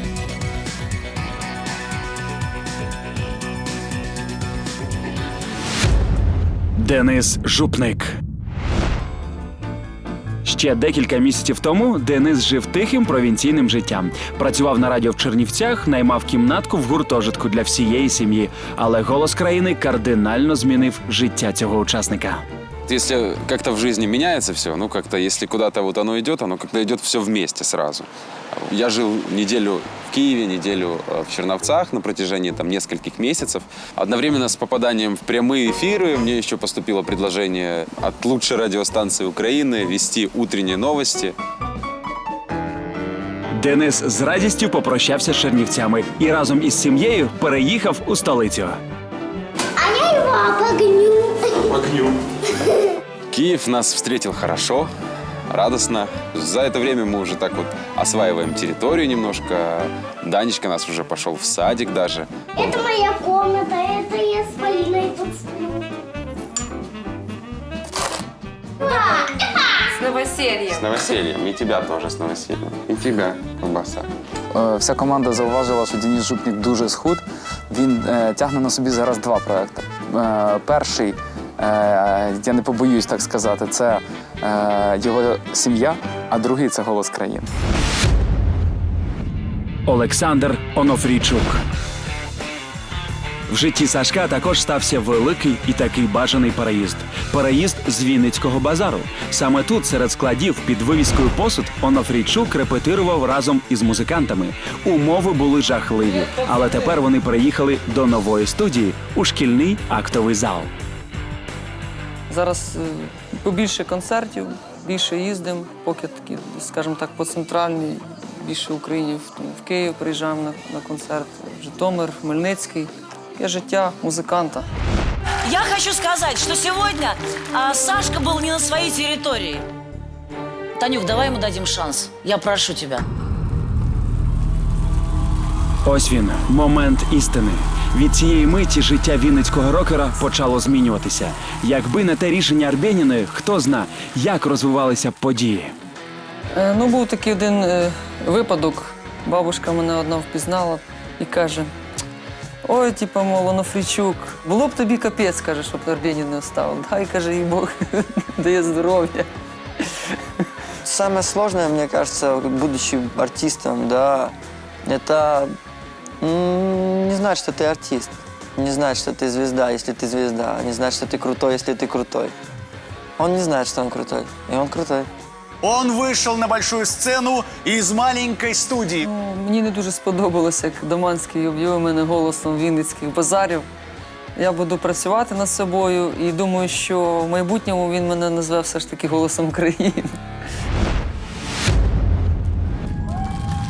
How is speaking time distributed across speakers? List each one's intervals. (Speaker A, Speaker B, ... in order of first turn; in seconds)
Speaker A: 6.8-8.2, 10.4-22.4, 43.6-48.8, 89.9-91.6, 93.5-110.7, 135.8-145.8
Speaker B: 22.9-41.4, 53.3-54.9, 55.5-62.4, 70.7-74.1
Speaker C: 49.8-51.9, 62.5-65.8, 68.8-70.0
Speaker D: 70.1-70.8, 112.3-124.7, 146.6-151.7, 152.6-159.3, 179.0-183.7, 184.4-190.2
Speaker E: 74.5-87.5
Speaker F: 125.5-129.7, 130.8-133.0
Speaker G: 160.9-164.3, 164.9-165.5, 166.2-172.3, 173.2-175.1
Speaker H: 175.6-179.0